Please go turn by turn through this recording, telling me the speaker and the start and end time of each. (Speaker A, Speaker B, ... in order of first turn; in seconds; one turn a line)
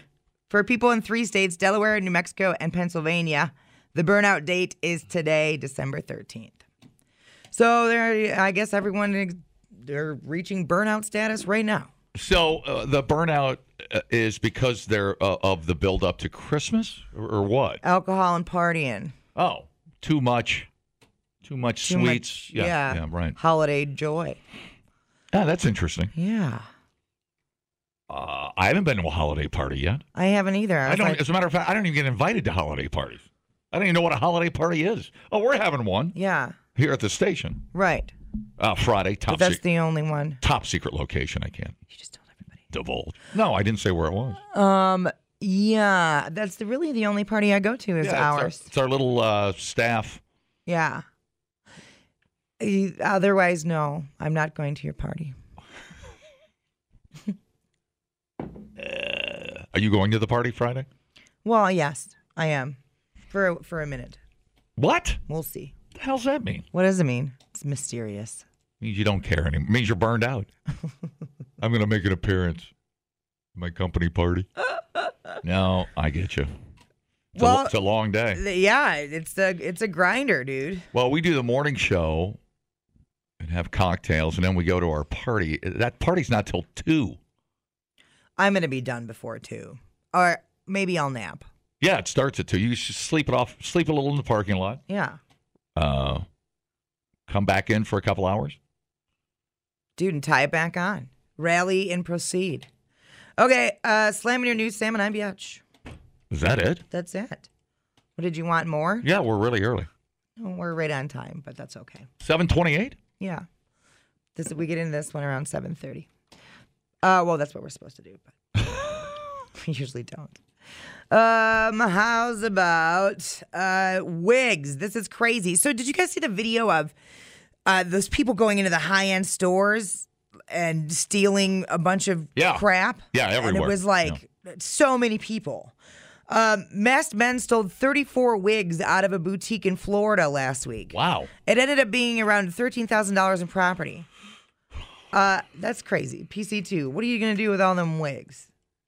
Speaker A: 0.5-6.6
Speaker A: 7.5-11.9
Speaker B: 12.2-17.8
Speaker A: 17.8-19.1
Speaker B: 19.4-20.7
Speaker B: 21.4-23.4
Speaker A: 21.9-24.4
Speaker B: 25.3-26.1
Speaker A: 26.1-26.7
Speaker B: 28.1-30.0
Speaker A: 30.1-31.2
Speaker B: 30.9-36.2
Speaker A: 36.1-36.6
Speaker B: 36.8-37.7
Speaker A: 37.7-38.1
Speaker B: 38.6-39.6
Speaker A: 39.3-40.4
Speaker B: 40.4-41.8
Speaker A: 41.9-42.6
Speaker B: 42.7-44.4
Speaker A: 44.5-48.6
Speaker B: 48.0-50.2
Speaker A: 50.7-51.0
Speaker A: 52.6-55.4
Speaker B: 58.8-60.9
Speaker A: 61.4-62.8
Speaker A: 63.3-64.2
Speaker B: 64.8-65.2
Speaker A: 65.3-65.7
Speaker B: 66.0-66.7
Speaker A: 66.7-68.4
Speaker B: 68.8-70.5
Speaker B: 71.6-72.7
Speaker B: 73.6-74.5
Speaker B: 75.4-76.5
Speaker B: 77.3-78.4
Speaker A: 77.4-77.8
Speaker A: 78.3-80.8
Speaker B: 80.9-82.4
Speaker B: 83.4-87.2
Speaker A: 88.4-91.5
Speaker B: 91.8-94.8
Speaker A: 94.9-95.2
Speaker B: 95.8-96.2
Speaker B: 97.3-98.6
Speaker A: 100.0-102.7
Speaker A: 103.4-105.6
Speaker B: 106.3-106.8
Speaker A: 106.9-107.5
Speaker A: 108.2-109.1
Speaker B: 109.0-109.9
Speaker A: 110.4-112.1
Speaker B: 112.2-113.0
Speaker A: 113.2-113.5
Speaker A: 114.4-116.1
Speaker A: 117.0-118.3
Speaker A: 119.6-120.4
Speaker A: 121.1-126.9
Speaker A: 127.7-135.8
Speaker B: 132.4-134.2
Speaker A: 136.3-144.1
Speaker B: 140.9-141.3
Speaker A: 145.1-148.5